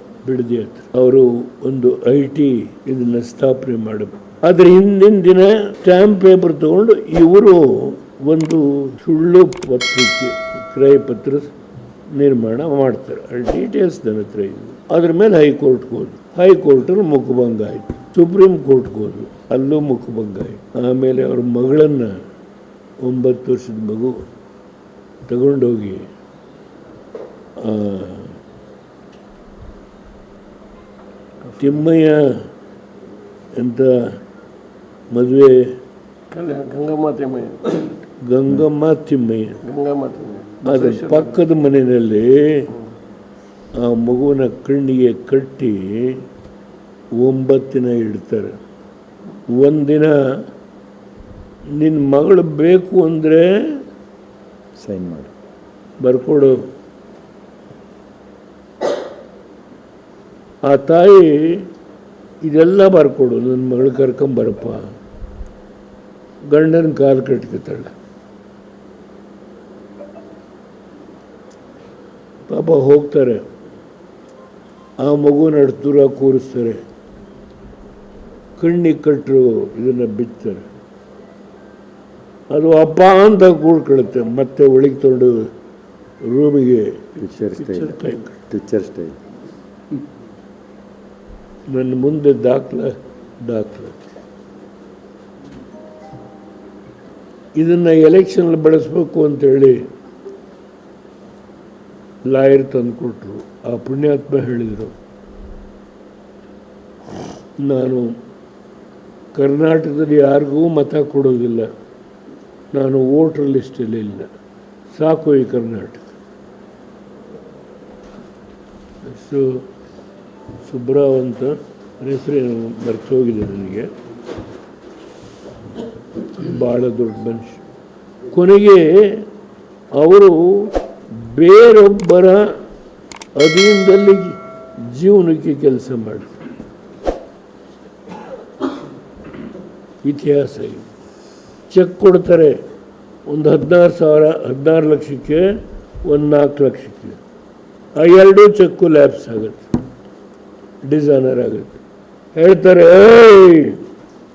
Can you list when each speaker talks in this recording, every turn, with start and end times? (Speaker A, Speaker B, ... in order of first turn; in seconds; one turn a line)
Speaker A: 0.2-11.5
Speaker A: 12.2-22.2
Speaker A: 23.0-24.2
Speaker A: 25.3-26.1
Speaker A: 27.6-28.4
Speaker A: 31.6-32.4
Speaker A: 33.5-34.2
Speaker A: 35.1-35.8
Speaker B: 36.3-37.9
Speaker A: 38.2-39.7
Speaker B: 39.6-41.2
Speaker A: 40.6-42.8
Speaker A: 43.8-46.2
Speaker A: 47.2-48.6
Speaker A: 49.5-50.2
Speaker A: 51.8-53.8
Speaker C: 54.8-55.3
Speaker A: 56.0-56.6
Speaker A: 60.6-61.7
Speaker A: 62.4-64.8
Speaker A: 66.5-67.9
Speaker A: 72.5-73.4
Speaker A: 75.0-76.8
Speaker A: 78.6-80.7
Speaker A: 82.5-85.5
Speaker A: 86.2-88.4
Speaker C: 87.2-88.0
Speaker C: 88.5-89.2
Speaker A: 91.7-94.1
Speaker A: 97.6-99.8
Speaker A: 102.3-105.0
Speaker A: 107.6-108.2
Speaker A: 109.4-111.7
Speaker A: 112.7-114.3
Speaker A: 114.9-116.1
Speaker A: 119.0-119.7
Speaker A: 120.7-123.9
Speaker A: 126.4-127.6
Speaker A: 128.3-129.3
Speaker A: 129.9-132.6
Speaker A: 133.4-136.4
Speaker A: 140.0-140.9
Speaker A: 141.7-142.6
Speaker A: 143.3-147.2
Speaker A: 148.0-149.7
Speaker A: 150.8-151.8
Speaker A: 152.3-153.8